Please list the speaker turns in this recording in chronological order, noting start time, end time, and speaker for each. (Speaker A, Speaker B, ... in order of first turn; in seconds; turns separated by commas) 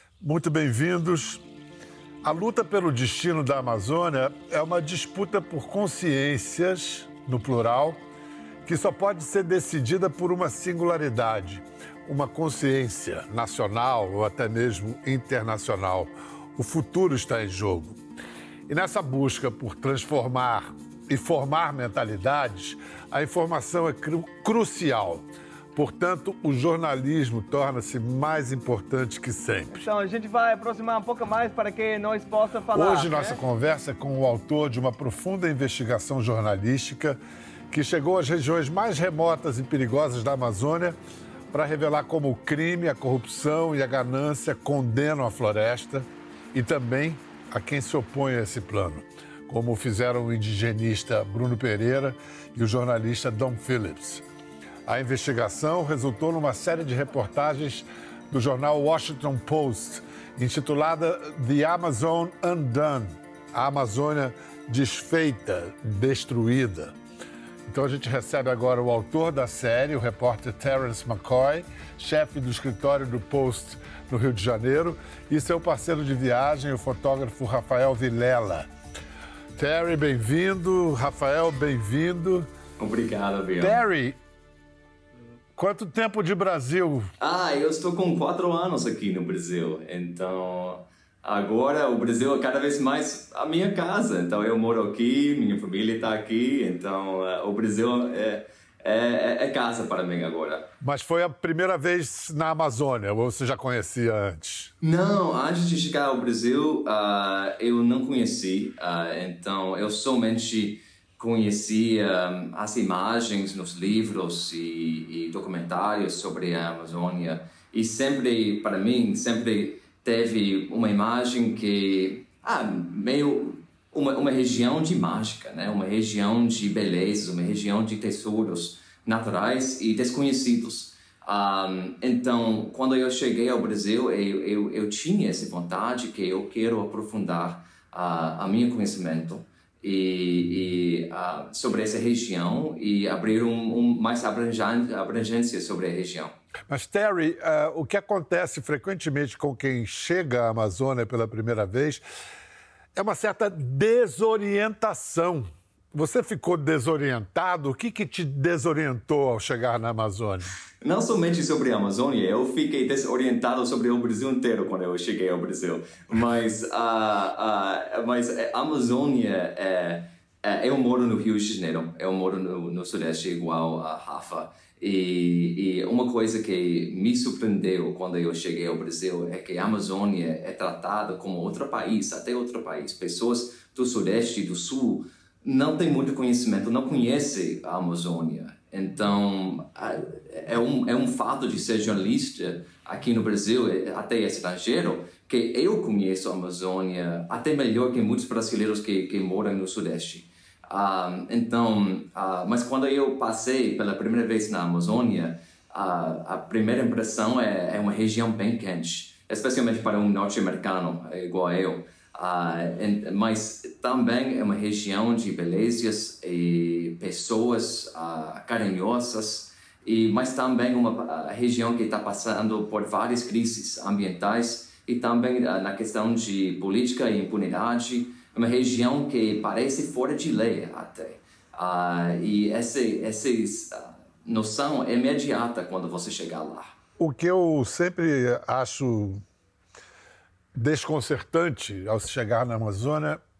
Speaker A: 0.2-1.4, Speaker A: 2.2-8.0, Speaker A: 8.6-18.0, Speaker A: 18.7-29.7, Speaker B: 29.7-33.4, Speaker A: 32.7-37.2, Speaker A: 37.7-41.0, Speaker A: 41.5-54.2, Speaker A: 54.9-66.9, Speaker A: 67.7-78.7, Speaker A: 79.5-82.5, Speaker C: 82.8-83.8, Speaker A: 83.6-84.2, Speaker A: 85.5-87.1, Speaker C: 87.2-100.7, Speaker A: 100.8-104.7, Speaker C: 104.8-146.3, Speaker A: 146.7-152.0, Speaker A: 152.9-160.5, Speaker C: 160.8-236.7, Speaker A: 237.0-239.2, Speaker A: 240.6-243.2